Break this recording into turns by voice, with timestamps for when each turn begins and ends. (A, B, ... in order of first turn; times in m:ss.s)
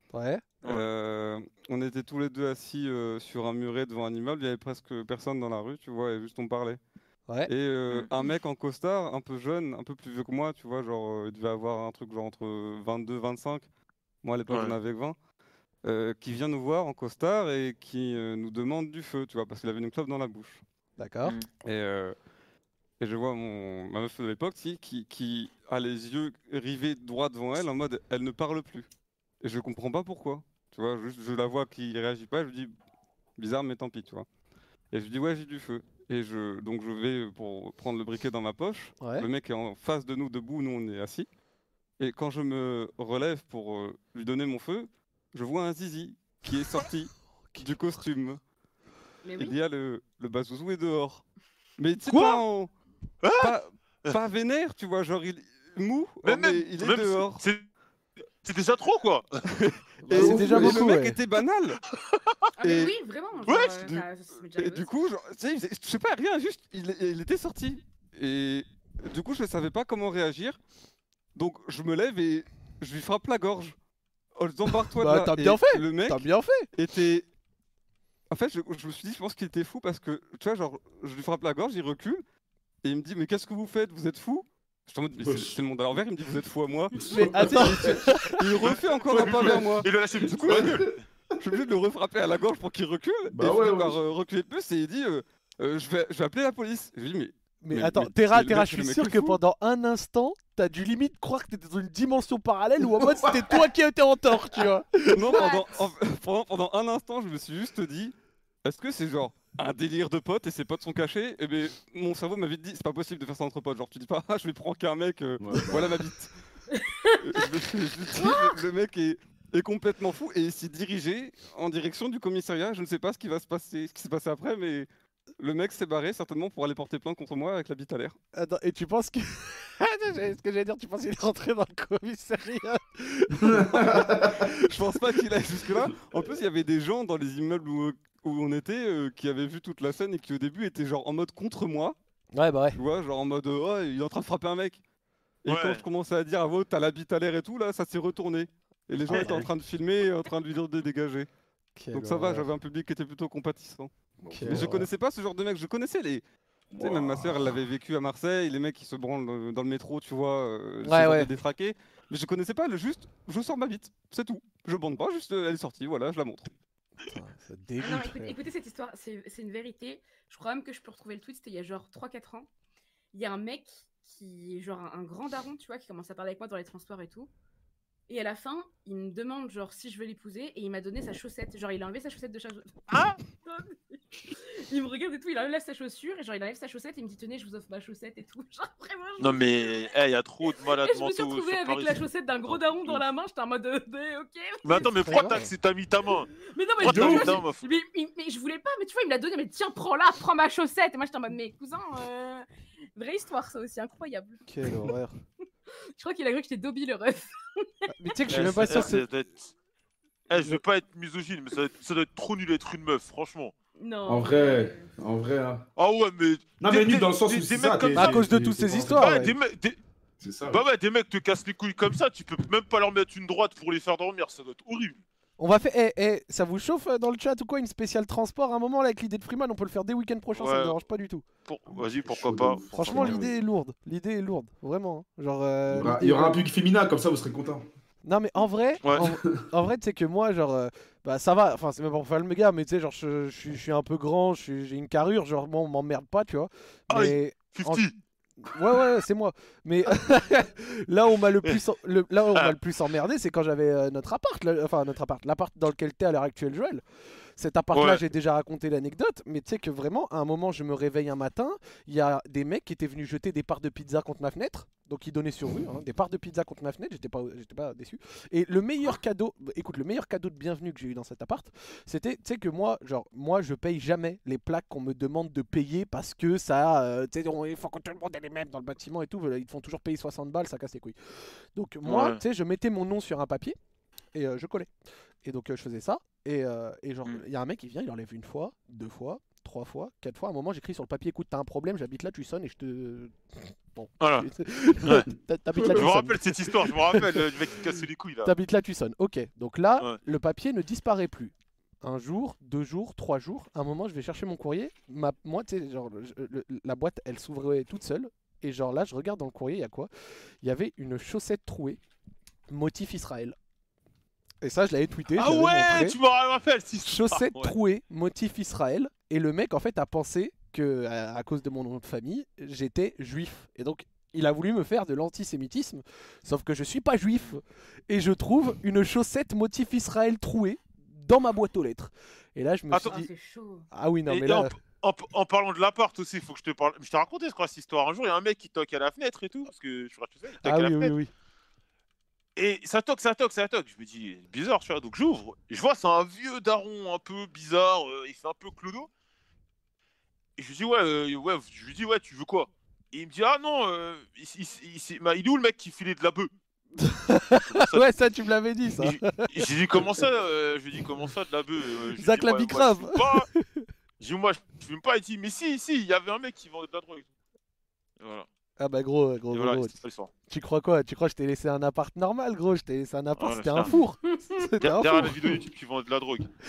0:00.1-0:00.4 A
0:00.6-0:06.8 B
0:07.4-0:13.7 B
0:07.9-0:08.3 C
0:14.2-0:15.2 B
0:14.5-0:14.8 C
0:15.8-0:20.6 B
0:21.0-0:21.3 A
0:21.6-0:22.2 B
0:23.0-0:28.9 B
0:29.4-0:32.7 B
0:33.4-0:34.2 B
0:34.9-0:41.3 B
0:39.0-0:39.3 A
0:42.0-0:48.4 B
0:49.2-0:49.5 D
0:49.3-0:51.2 B
0:51.8-0:52.7 B
0:52.1-0:52.4 C
0:53.2-0:53.5 C
0:53.4-0:57.4 B
0:56.2-0:57.6 C
0:58.4-0:59.4 C
0:59.5-1:01.8 B
1:00.1-1:00.8 E
1:00.1-1:01.2 A
1:02.6-1:04.9 D
1:02.6-1:03.0 B
1:03.4-1:03.8 C
1:03.7-1:10.6 B
1:11.3-1:13.8 B
1:14.4-1:17.2 B
1:14.9-1:16.7 A
1:18.3-1:22.2 B
1:22.8-1:30.9 B
1:25.2-1:25.5 E
1:27.0-1:28.1 E
1:27.0-1:28.4 A
1:28.6-1:31.0 C
1:29.3-1:29.8 E
1:30.4-1:30.8 E
1:31.4-1:39.4 B
1:33.3-1:34.0 E
1:37.6-1:45.5 A
1:42.9-1:43.6 E
1:45.1-1:48.1 B
1:45.3-1:45.6 D
1:48.6-1:56.3 B
1:55.4-1:56.0 E
1:57.2-2:04.9 B
1:58.2-1:58.5 D
2:05.4-2:08.2 B
2:08.3-2:14.5 A
2:13.4-2:14.5 E
2:14.6-2:21.9 B
2:22.3-2:22.8 A
2:22.8-2:24.8 B
2:25.4-2:31.3 B
2:25.5-2:25.8 C
2:29.1-2:29.4 C
2:29.1-2:29.4 A
2:31.8-2:32.5 A
2:31.9-2:33.9 B
2:34.2-2:34.9 E
2:34.3-2:34.8 A
2:34.4-2:36.2 B
2:36.7-2:37.6 E
2:36.8-2:46.5 B
2:40.8-2:41.3 A
2:47.1-2:48.4 A
2:47.8-2:52.5 D
2:53.1-2:57.3 D
2:58.1-3:02.8 D
3:02.9-3:03.2 C
3:03.4-3:03.7 D
3:04.3-3:09.8 D
3:09.2-3:13.0 C
3:10.5-3:15.3 D
3:14.6-3:17.7 C
3:15.0-3:15.5 A
3:16.5-3:22.4 D
3:16.8-3:17.4 E
3:23.0-3:24.4 D
3:24.5-3:25.2 A
3:26.0-3:27.3 D
3:27.9-3:29.0 A
3:28.3-3:29.5 C
3:30.3-3:33.5 C
3:33.8-3:34.9 D
3:34.1-3:35.6 E
3:35.8-3:38.2 C
3:36.6-3:39.2 E
3:37.9-3:39.3 A
3:39.0-3:39.8 C
3:40.2-3:40.6 E
3:40.5-3:45.0 C
3:45.4-3:51.2 A
3:50.3-3:50.8 C
3:51.4-3:53.3 C
3:51.7-3:53.3 E
3:52.8-3:56.4 A
3:55.7-3:57.6 E
3:58.0-4:07.9 A
4:06.9-4:07.9 C
4:08.4-4:16.8 A
4:17.4-4:41.0 A
4:17.7-4:18.0 C
4:41.5-4:43.6 A
4:41.8-4:42.2 C
4:44.1-4:44.7 A
4:45.2-4:57.2 A
4:54.0-4:54.3 C
4:55.6-4:55.8 E
4:55.7-4:58.3 C
4:58.2-5:09.9 A
5:10.4-5:11.8 A
5:12.5-5:13.3 A
5:14.4-5:16.0 A
5:15.1-5:17.6 C
5:16.8-5:33.1 A
5:32.7-5:33.0 C
5:32.9-5:33.7 D
5:33.7-5:34.6 A
5:34.1-5:40.9 C
5:40.4-5:41.1 A
5:42.4-5:48.9 C
5:50.4-5:56.3 C
5:56.8-5:59.4 A
5:57.3-5:57.9 C
5:58.7-6:03.3 C
6:02.0-6:03.7 A
6:04.0-6:07.1 C
6:08.0-6:08.3 C
6:08.6-6:15.4 A
6:09.3-6:10.1 C
6:13.2-6:13.8 C
6:14.6-6:16.3 C